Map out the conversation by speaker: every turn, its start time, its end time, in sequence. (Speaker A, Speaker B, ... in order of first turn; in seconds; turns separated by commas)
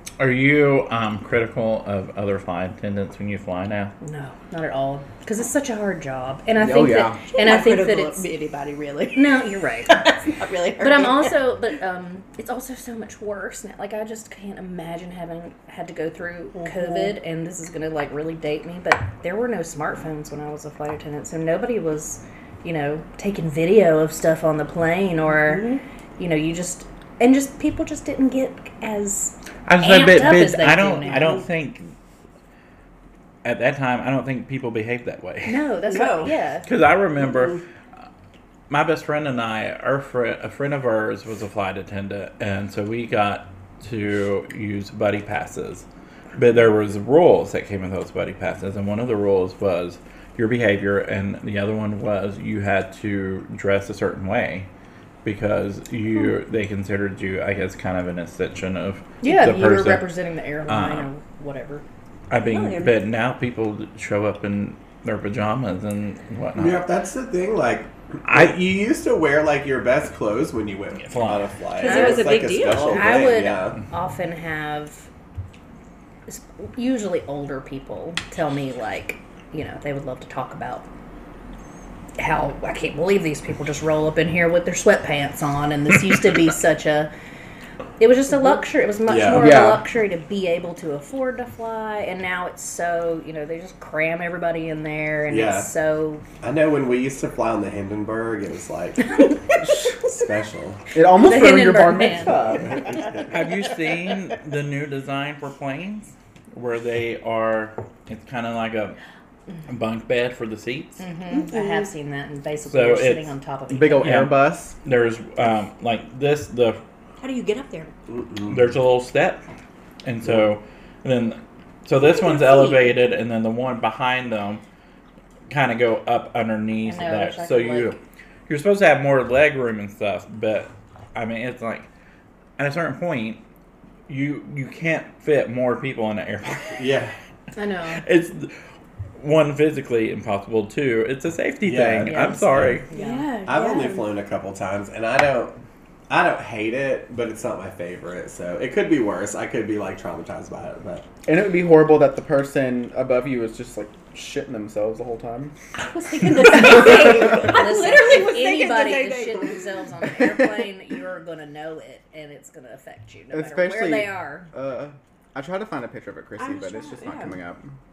Speaker A: 0.2-3.9, Speaker B: 4.0-8.3, Speaker C: 6.6-7.2, Speaker D: 7.3-9.4, Speaker B: 9.2-10.0, Speaker D: 9.9-11.3, Speaker B: 10.8-31.4, Speaker D: 16.5-17.1, Speaker D: 25.3-25.8, Speaker A: 29.7-31.9, Speaker D: 31.1-31.4, Speaker A: 33.4-35.7, Speaker B: 35.5-36.7, Speaker D: 35.9-36.3, Speaker A: 36.6-37.6, Speaker D: 37.2-37.6, Speaker A: 38.7-45.9, Speaker A: 46.4-54.7, Speaker A: 55.2-60.1, Speaker B: 59.2-61.9, Speaker A: 60.7-61.1, Speaker A: 62.3-66.9, Speaker D: 62.5-63.0, Speaker E: 66.6-73.8, Speaker A: 68.3-68.6, Speaker A: 71.0-71.5, Speaker B: 71.8-72.3, Speaker D: 71.8-73.2, Speaker B: 72.9-75.1, Speaker B: 76.3-80.9, Speaker B: 82.2-87.1, Speaker B: 88.0-96.2, Speaker E: 89.1-89.6, Speaker C: 89.4-89.8, Speaker E: 95.3-95.7, Speaker E: 96.4-99.3, Speaker E: 100.1-100.8, Speaker C: 100.9-102.8, Speaker B: 101.1-103.0, Speaker E: 102.5-103.3, Speaker A: 103.3-109.0, Speaker A: 109.7-111.1, Speaker B: 111.0-114.2, Speaker D: 111.3-111.9, Speaker A: 112.7-113.3, Speaker C: 113.7-114.7, Speaker A: 114.0-116.8, Speaker D: 117.2-117.9, Speaker E: 118.1-118.7, Speaker A: 118.5-119.5, Speaker A: 120.0-124.6, Speaker D: 122.0-122.9, Speaker A: 125.5-131.9, Speaker B: 126.8-128.0, Speaker A: 132.6-133.4, Speaker A: 134.1-136.9, Speaker E: 136.8-137.2, Speaker B: 137.6-138.0, Speaker A: 137.9-138.5, Speaker A: 139.2-142.8, Speaker E: 141.6-142.8, Speaker B: 142.0-143.3, Speaker D: 142.9-144.1, Speaker E: 143.5-145.6, Speaker E: 146.1-151.1, Speaker C: 151.3-155.5, Speaker D: 155.8-159.6, Speaker B: 156.8-164.5, Speaker C: 163.3-167.7, Speaker D: 166.4-167.4